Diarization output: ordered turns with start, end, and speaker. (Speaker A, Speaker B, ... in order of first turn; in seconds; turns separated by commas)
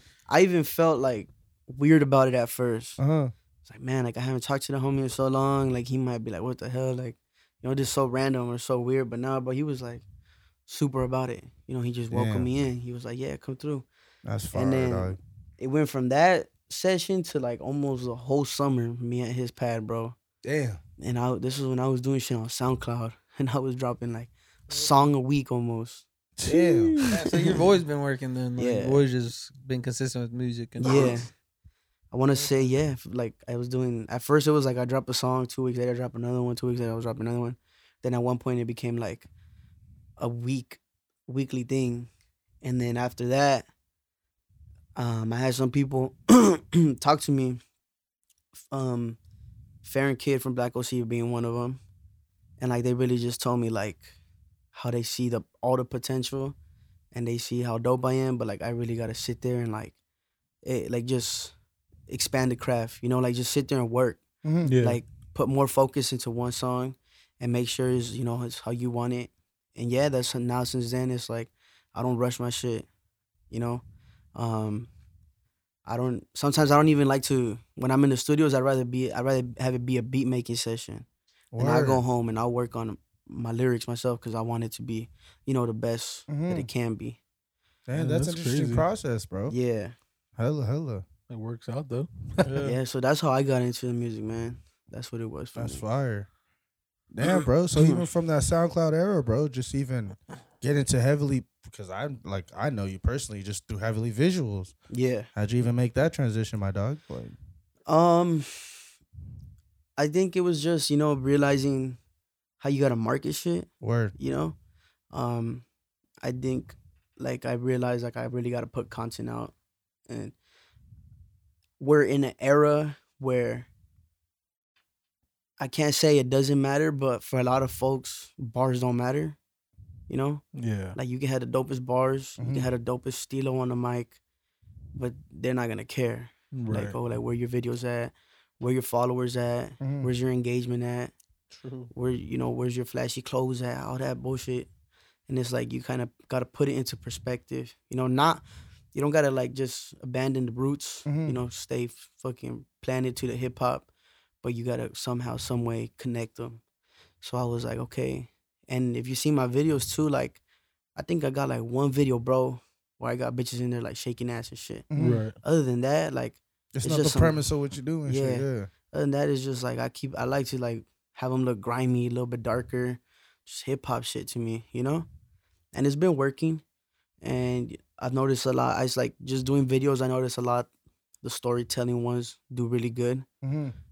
Speaker A: 0.3-3.0, Speaker B: 3.0-3.3, Speaker A: 3.6-10.0, Speaker A: 10.7-13.8, Speaker B: 12.1-12.5, Speaker B: 14.2-15.2, Speaker A: 14.5-20.1, Speaker B: 20.4-20.8, Speaker A: 21.0-26.1, Speaker B: 26.4-27.6, Speaker C: 26.5-27.2, Speaker D: 27.1-31.2, Speaker A: 28.6-29.0, Speaker A: 30.8-31.3, Speaker B: 30.8-31.2, Speaker A: 32.1-39.3, Speaker D: 32.3-32.7, Speaker A: 40.2-42.1, Speaker A: 42.6-43.7, Speaker A: 45.0-47.6, Speaker A: 48.6-49.2, Speaker A: 49.8-51.8, Speaker A: 52.6-54.1, Speaker A: 54.7-56.5, Speaker A: 57.1-59.9, Speaker A: 60.6-61.5, Speaker A: 62.1-64.2, Speaker B: 64.4-64.7, Speaker C: 64.6-65.0, Speaker A: 64.8-72.9, Speaker A: 73.5-73.8, Speaker A: 74.3-74.9, Speaker A: 75.8-81.0, Speaker B: 81.5-82.0, Speaker A: 81.6-87.2, Speaker B: 86.3-86.7, Speaker B: 87.9-89.5, Speaker C: 87.9-88.8, Speaker A: 89.5-89.9, Speaker B: 90.4-91.0, Speaker C: 91.3-92.7, Speaker A: 92.6-95.8, Speaker B: 95.5-96.3, Speaker B: 97.1-104.7, Speaker A: 104.9-105.3, Speaker B: 105.3-107.3, Speaker A: 107.9-108.7, Speaker A: 110.0-112.0, Speaker A: 112.6-114.6, Speaker B: 113.8-114.1, Speaker A: 115.1-115.6, Speaker A: 116.2-119.5, Speaker A: 120.1-120.3, Speaker A: 121.8-123.7, Speaker A: 125.6-129.4, Speaker A: 130.1-130.4, Speaker C: 130.5-131.0, Speaker A: 130.9-134.2, Speaker B: 132.4-132.7, Speaker A: 134.9-141.1, Speaker C: 136.5-137.0, Speaker B: 139.8-140.1, Speaker D: 141.6-141.9, Speaker A: 141.9-144.7, Speaker A: 145.3-153.9, Speaker B: 151.1-151.4, Speaker A: 154.4-156.6, Speaker A: 157.2-160.4, Speaker A: 160.9-164.9, Speaker B: 164.9-165.2, Speaker C: 164.9-165.3, Speaker A: 165.4-167.4, Speaker B: 166.7-168.7, Speaker A: 168.0-175.1, Speaker A: 175.7-176.6, Speaker A: 177.2-180.7, Speaker A: 181.2-183.2, Speaker B: 183.4-183.7